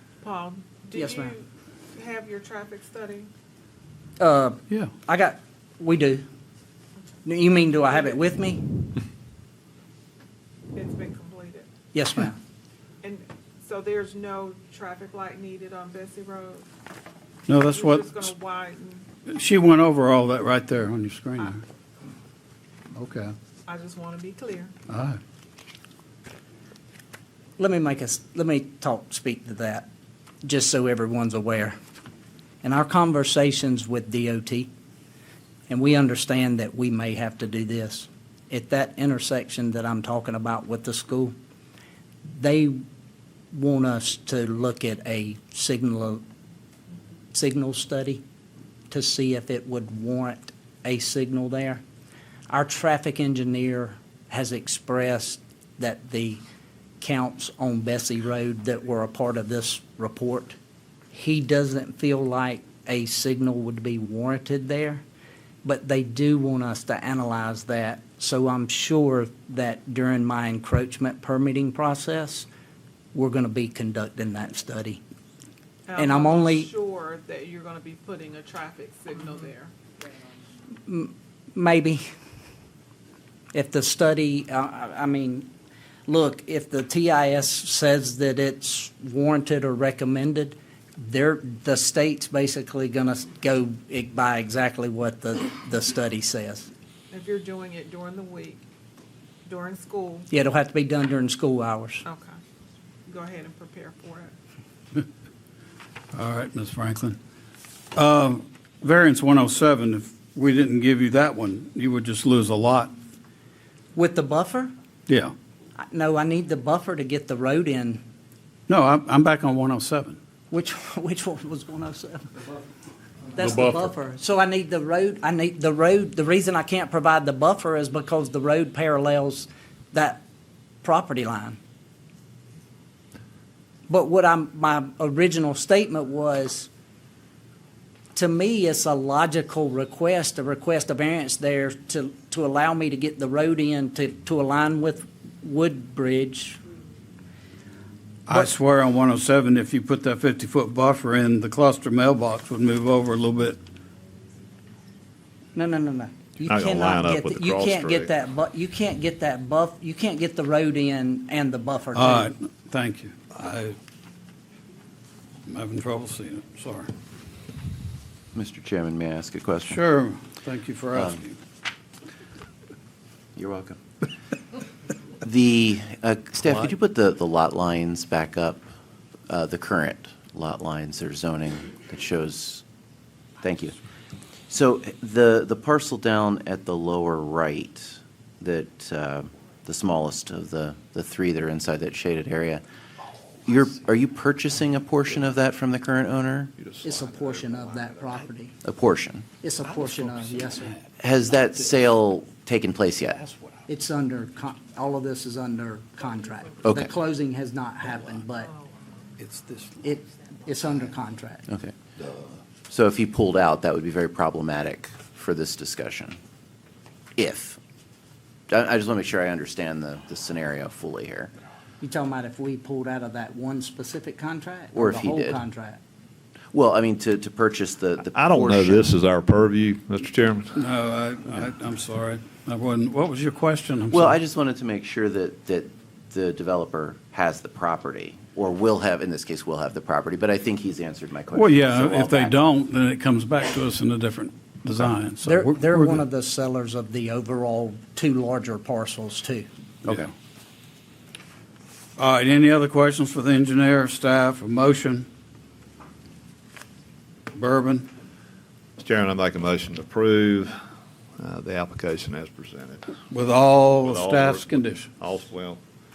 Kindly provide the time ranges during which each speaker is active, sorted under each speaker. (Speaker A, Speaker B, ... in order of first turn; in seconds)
Speaker A: 0.2-3.3, 10.7-11.7, 13.0-16.6, 17.7-19.1, 23.7-24.7, 75.9-79.7, 97.1-98.6, 99.5-100.3, 102.0-102.3, 103.1-104.3
Speaker B: 0.9-1.3, 4.2-6.2, 7.2-8.7, 11.9-12.4, 27.6-29.9, 30.4-31.8, 32.6-34.7, 35.7-41.4, 42.3-42.8, 43.5-46.2, 47.3-48.2, 48.9-51.8, 52.5-56.4, 57.0-60.6, 61.1-65.0, 65.6-72.5, 73.1-75.0, 76.0-76.7, 80.8-82.0, 83.5-85.5, 86.1-96.7, 100.3-102.0, 113.9-114.7, 115.8-118.0, 120.5-122.3, 123.3-130.2, 130.8-131.6, 133.9-136.7, 138.1-146.6, 155.5-162.3, 196.8-198.5, 199.4-200.7, 203.7-208.5, 209.8-211.4, 221.8-225.8, 245.2-249.5
Speaker C: 17.5-18.2, 19.2-21.6, 22.9-23.4, 24.9-25.2, 106.1-107.2, 107.9-112.9, 115.1-115.3, 118.7-120.2, 123.4-123.8, 148.2-153.6, 161.9-163.8, 165.5-166.9, 169.7-171.3, 209.2-209.8, 230.5-234.2, 241.3-246.0, 252.0-255.1, 257.3-257.9, 263.1-264.9
Speaker D: 156.4-158.1, 196.6-198.0, 228.1-230.5, 258.8-260.6, 261.2-262.9, 263.8-265.6
Speaker E: 168.3-169.8, 170.9-171.2, 173.3-173.8, 175.2-178.6, 179.3-182.6, 183.4-183.7, 184.5-192.6, 193.4-196.5, 198.6-199.2, 201.0-203.2, 206.6-206.9, 211.5-211.8, 212.7-216.2, 217.2-217.6, 218.5-221.3, 224.7-225.4, 226.5-228.9, 233.9-242.3